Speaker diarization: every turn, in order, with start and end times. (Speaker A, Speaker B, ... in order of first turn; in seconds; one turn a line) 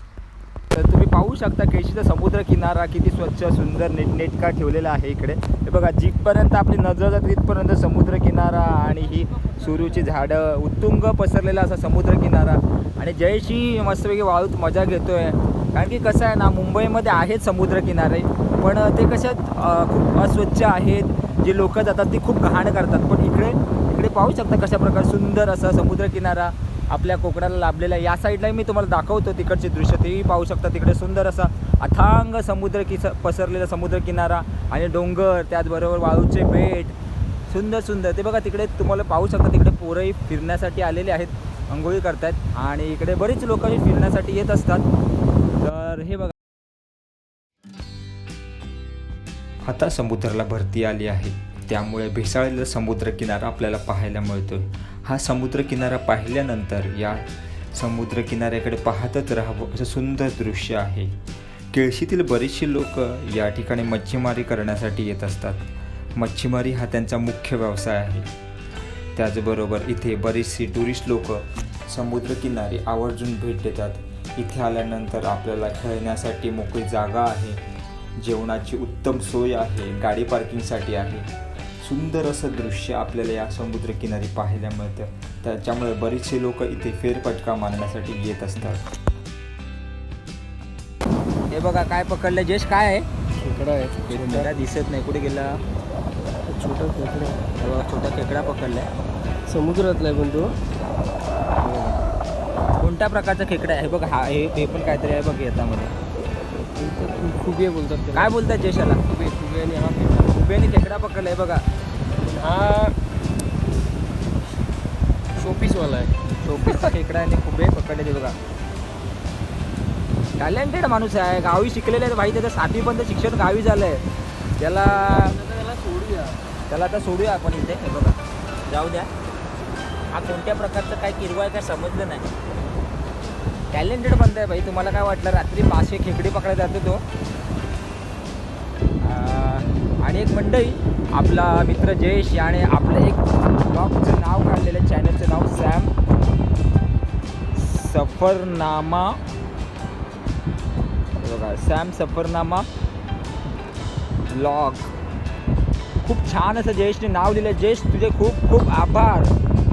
Speaker A: 0.7-37.0
Speaker A: 37.5-44.9
Speaker A: 45.5-46.3
Speaker A: 49.6-61.1
Speaker A: 61.7-68.3
Speaker A: 69.1-77.6
Speaker A: 78.2-81.3
Speaker A: 81.8-88.8
Speaker A: 91.5-93.1
Speaker B: 93.3-94.5
Speaker A: 94.1-95.6
Speaker B: 96.5-97.5
Speaker A: 97.5-98.9
Speaker B: 99.5-100.5
Speaker A: 101.6-102.0
Speaker A: 102.8-105.9
Speaker B: 106.7-108.3
Speaker A: 108.1-109.0
Speaker B: 109.1-110.4
Speaker A: 110.3-111.6
Speaker B: 112.2-113.0
Speaker B: 115.3-116.9
Speaker A: 116.3-118.4
Speaker A: 120.4-124.0
Speaker A: 124.6-125.4
Speaker B: 124.9-126.4
Speaker A: 126.7-129.1
Speaker A: 130.1-132.3
Speaker A: 133.7-137.0
Speaker A: 139.0-145.9
Speaker A: 147.5-149.2
Speaker A: 151.2-152.7
Speaker A: 154.3-154.9
Speaker A: 156.0-159.3